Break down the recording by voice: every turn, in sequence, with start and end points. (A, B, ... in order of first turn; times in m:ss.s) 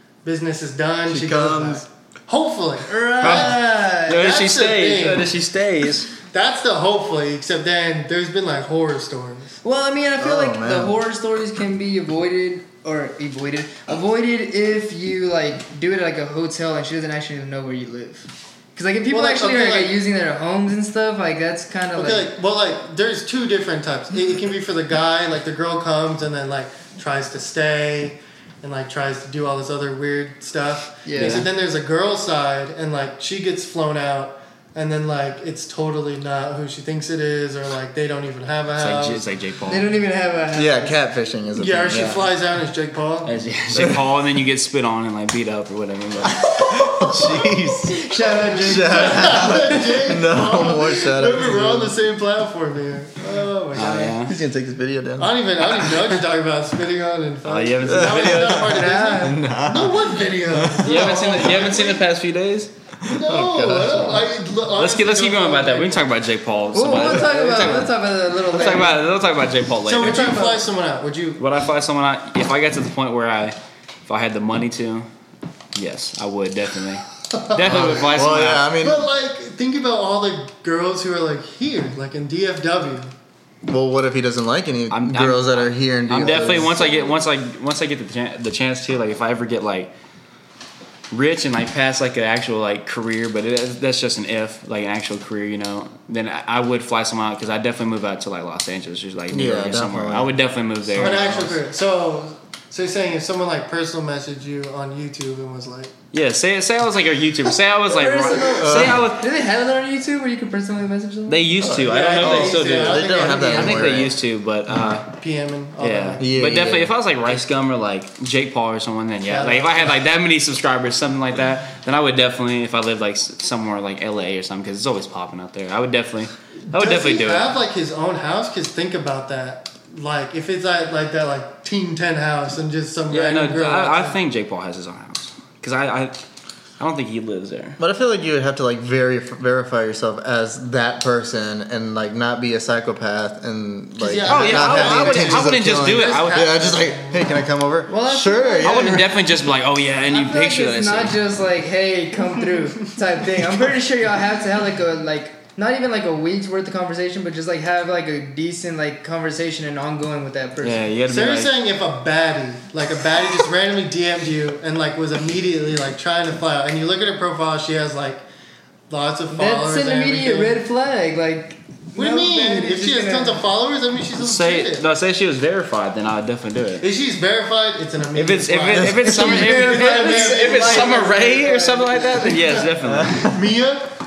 0:00.2-0:05.3 A
0:01.1-0:01.8 B
0:02.9-0:04.2 C
0:03.2-0:06.1 D
0:06.3-0:09.6 A
0:09.6-0:22.3 C
0:10.2-0:11.0 B
0:19.1-0:19.9 A
0:21.9-0:39.2 A
0:31.0-0:31.5 C
0:31.2-0:31.4 D
0:38.8-0:39.9 D
0:39.7-0:41.0 C
0:40.5-0:42.3 B
0:41.6-0:43.3 A
0:43.2-0:47.2 D
0:43.7-0:44.0 B
0:46.4-0:51.9 B
0:47.9-0:49.6 C
0:48.6-0:54.2 A
0:53.7-0:54.4 D
0:54.2-0:55.3 B
0:55.2-1:02.0 A
0:55.8-0:56.0 D
0:57.4-0:58.7 D
0:57.8-1:01.3 B
0:58.6-0:59.4 C
1:00.8-1:02.7 D
1:03.0-1:04.3 B
1:03.1-1:06.1 A
1:04.7-1:10.6 D
1:06.7-1:09.0 C
1:09.8-1:11.4 A
1:11.4-1:15.1 D
1:15.7-1:18.7 D
1:17.3-1:17.9 A
1:17.6-1:19.0 B
1:18.8-1:23.1 A
1:23.6-1:26.9 B
1:24.9-1:29.9 D
1:26.2-1:27.1 A
1:31.1-1:41.6 D
1:39.3-1:40.3 B
1:40.9-1:45.9 A
1:46.1-1:49.2 D
1:47.9-1:51.4 C
1:48.5-1:49.1 B
1:51.3-1:55.1 D
1:51.6-1:54.1 B
1:51.8-1:54.1 A
1:55.1-1:56.3 A
1:55.8-2:07.5 D
1:56.2-1:56.9 B
1:59.3-2:00.0 A
2:06.7-2:14.2 A
2:13.1-2:16.2 D
2:16.8-2:17.8 D
2:17.8-2:29.1 B
2:24.0-2:27.4 A
2:24.2-2:26.8 D
2:27.9-2:29.0 C
2:28.6-2:31.2 D
2:30.1-2:40.8 C
2:40.6-2:41.5 D
2:41.1-2:48.2 A
2:48.9-2:50.6 A
2:49.3-2:53.4 C
2:52.0-2:54.8 A
2:54.2-2:56.8 D
2:56.8-3:01.0 A
2:58.1-3:03.3 D
2:58.7-2:59.4 B
2:59.0-3:02.4 C
3:02.8-3:03.3 B
3:03.2-3:03.9 A